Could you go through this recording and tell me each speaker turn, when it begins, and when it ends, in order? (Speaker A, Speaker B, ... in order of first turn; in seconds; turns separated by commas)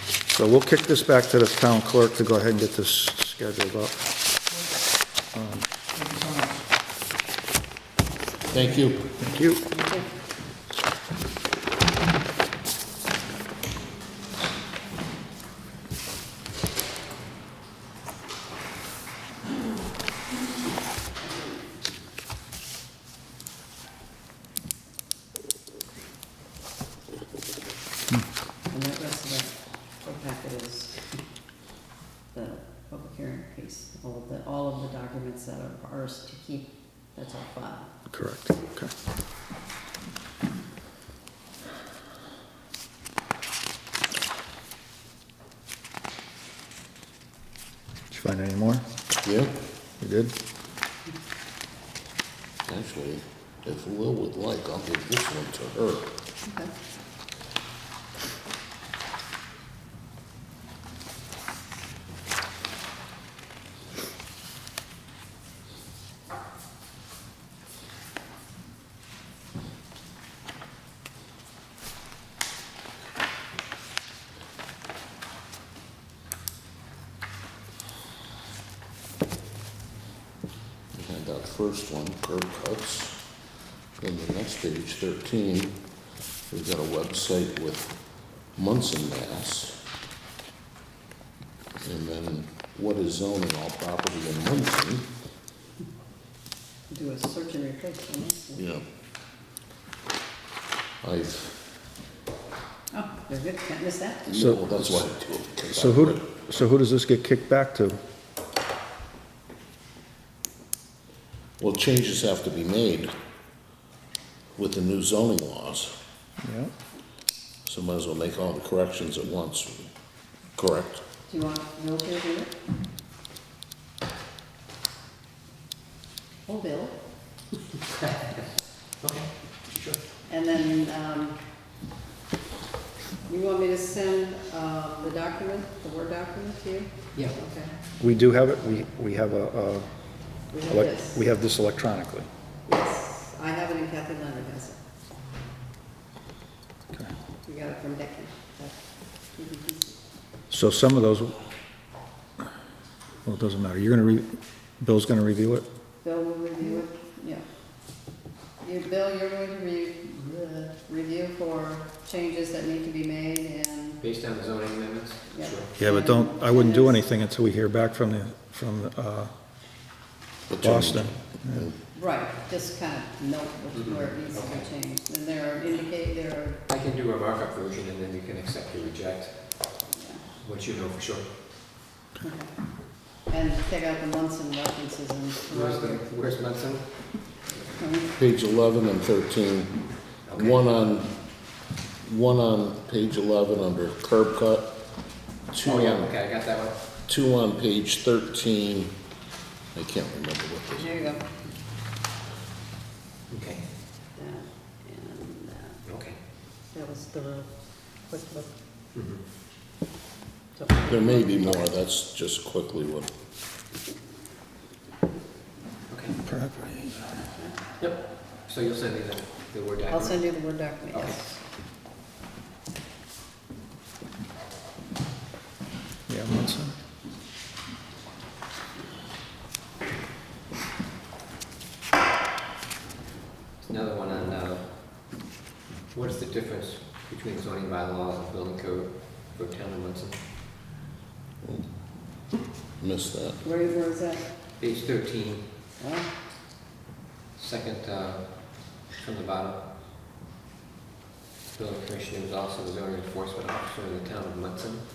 Speaker A: 0.3-4.0, Speaker A: 5.3-6.5, Speaker B: 8.5-9.1, Speaker A: 9.2-9.7, Speaker C: 9.7-10.1, Speaker C: 28.7-31.0, Speaker C: 32.3-37.9, Speaker A: 38.1-38.9, Speaker A: 48.1-48.8, Speaker B: 49.2-49.5, Speaker A: 50.0-50.3, Speaker B: 52.6-56.1, Speaker C: 56.5-56.7, Speaker B: 80.9-83.2, Speaker B: 84.0-85.8, Speaker B: 86.5-87.9, Speaker B: 88.5-89.8, Speaker B: 91.8-95.1, Speaker C: 96.9-98.6, Speaker B: 98.5-98.8, Speaker B: 101.0-101.6, Speaker C: 102.9-104.4, Speaker B: 104.3-106.3, Speaker A: 104.3-105.0, Speaker A: 105.7-108.0, Speaker B: 111.6-113.1, Speaker B: 114.6-115.9, Speaker A: 116.4-116.7, Speaker B: 117.7-119.9, Speaker B: 120.5-121.0, Speaker C: 121.3-122.5, Speaker C: 126.5-127.0, Speaker D: 129.0-130.0, Speaker C: 130.3-131.4, Speaker C: 133.3-137.7, Speaker A: 138.0-139.9, Speaker C: 140.5-141.2, Speaker A: 140.7-142.3, Speaker C: 142.7-144.8, Speaker C: 147.4-148.8, Speaker C: 149.3-150.0, Speaker A: 150.5-151.4, Speaker A: 153.2-154.3, Speaker A: 154.8-155.7, Speaker C: 156.0-157.5, Speaker C: 158.6-164.0, Speaker D: 164.0-165.7, Speaker C: 165.3-167.0, Speaker A: 165.8-169.3, Speaker B: 170.5-171.8, Speaker A: 170.6-171.7, Speaker C: 171.9-176.6, Speaker D: 173.7-174.7, Speaker D: 176.7-179.8, Speaker C: 179.9-180.2, Speaker D: 180.4-181.3, Speaker C: 182.2-182.6, Speaker C: 183.3-186.0, Speaker D: 185.5-186.9, Speaker C: 187.8-188.1, Speaker B: 188.2-191.1, Speaker D: 190.3-190.6, Speaker B: 192.0-194.8, Speaker B: 195.5-196.1, Speaker D: 195.6-196.8, Speaker B: 197.1-198.9, Speaker B: 199.7-201.1, Speaker C: 200.8-201.2, Speaker D: 203.3-203.7, Speaker C: 204.2-205.8, Speaker D: 205.8-206.2, Speaker C: 206.7-208.5, Speaker D: 208.9-209.2, Speaker C: 210.6-211.7, Speaker B: 210.9-213.1, Speaker D: 215.9-216.2, Speaker A: 216.2-217.1, Speaker D: 217.8-220.3, Speaker C: 219.9-221.4, Speaker D: 220.9-221.2, Speaker A: 226.1-226.8, Speaker D: 233.6-234.7, Speaker D: 235.9-240.2, Speaker B: 242.8-243.4, Speaker C: 243.4-244.3, Speaker D: 244.6-245.4, Speaker C: 245.8-246.1, Speaker D: 247.4-249.6, Speaker D: 251.5-254.8